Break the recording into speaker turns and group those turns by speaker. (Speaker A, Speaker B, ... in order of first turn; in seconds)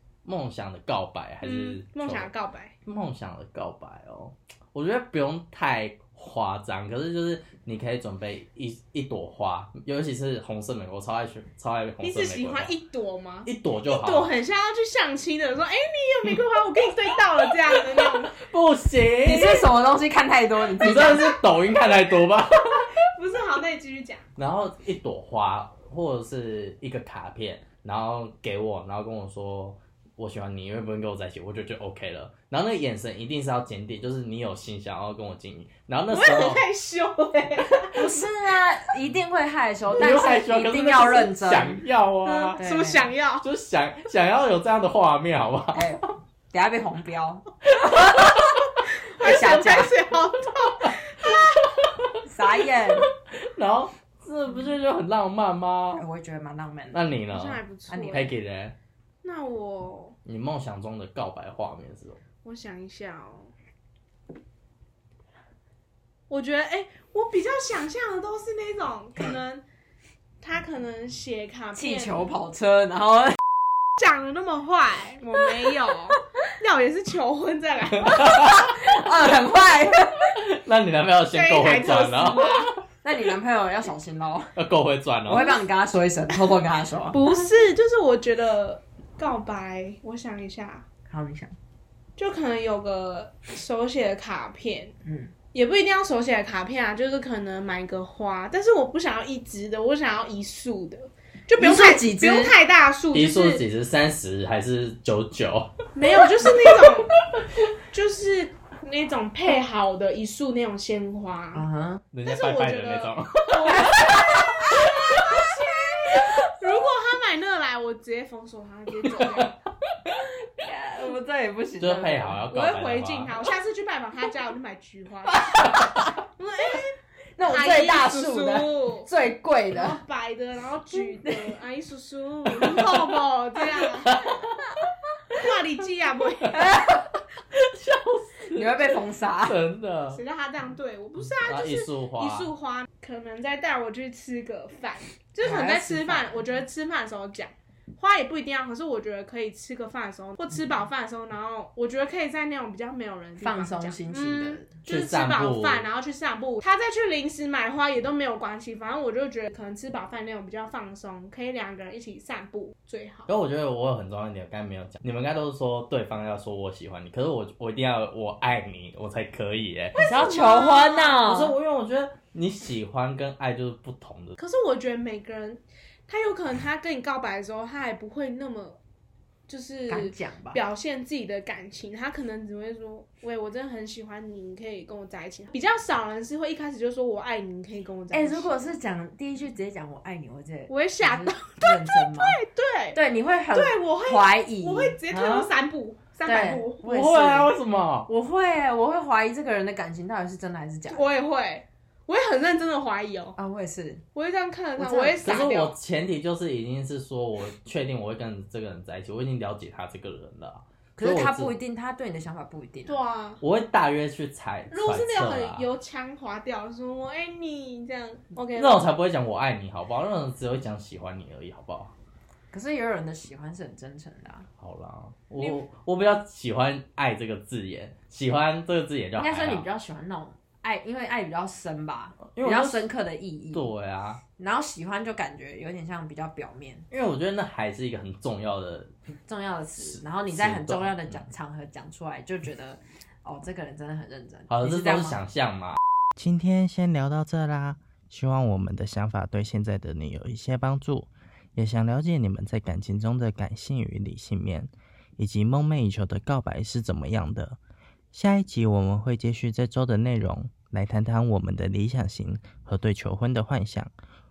Speaker A: 0.2-2.3, 2.9-12.8, 13.4-14.3, 18.3-19.6, 20.8-22.9, 24.4-36.6, 39.9-42.6, 43.4-45.9, 53.5-56.0, 56.9-58.8, 60.2-62.2, 78.1-78.5, 80.4-82.7, 84.5-85.5, 103.1-105.7, 112.1-114.0, 121.8-123.4, 134.1-134.4, 137.5-140.2, 141.3-142.5, 154.8-155.8, 163.3-170.0, 171.2-174.4, 196.8-198.1, 205.2-211.6, 213.4-215.7, 218.5-221.9, 224.6-229.7, 232.3-232.9, 233.5-234.2, 236.9-238.9, 239.8-241.2, 244.5-257.6, 258.1-263.9
Speaker B: 1.4-2.7, 12.0-18.4, 20.8-21.9, 22.9-24.2, 36.1-38.0, 42.2-43.5, 48.8-51.3, 57.3-58.3, 59.2-60.1, 62.4-63.5, 66.3-69.6, 70.4-72.4, 74.0-78.3, 81.3-82.7, 87.1-90.8, 92.2-94.9, 95.5-103.6, 105.9-107.1, 107.9-111.7, 112.2-119.5, 122.5-125.6, 126.3-129.1, 129.7-134.2, 135.3-136.6, 140.1-163.3, 169.9-171.2, 174.4-178.8, 179.5-188.7, 190.7-193.0, 193.5-196.8, 200.9-203.3, 204.1-205.7, 212.8-213.4, 214.7-218.8, 225.4-225.6
Speaker C: 19.2-21.3, 37.9-41.8, 42.6-43.1, 45.7-47.4, 48.0-48.4, 49.2-49.9, 52.2-53.0, 55.9-57.0, 57.9-58.3, 71.8-73.4, 78.2-80.2, 83.0-84.5, 85.2-87.3, 91.1-91.5, 95.0-95.3, 101.6-102.5, 111.5-112.0, 113.7-114.9, 120.1-122.4, 125.2-126.0, 127.4-130.0, 130.9-131.6, 136.4-137.1, 138.5-139.6, 145.4-146.4, 153.4-154.7, 170.0-171.6, 179.9-180.6, 188.1-192.4, 192.9-195.5, 196.2-197.5, 198.1-201.1, 203.3-204.0, 204.8-205.4, 211.0-213.0, 222.5-224.5, 229.1-233.7, 234.4-236.8, 239.1-245.2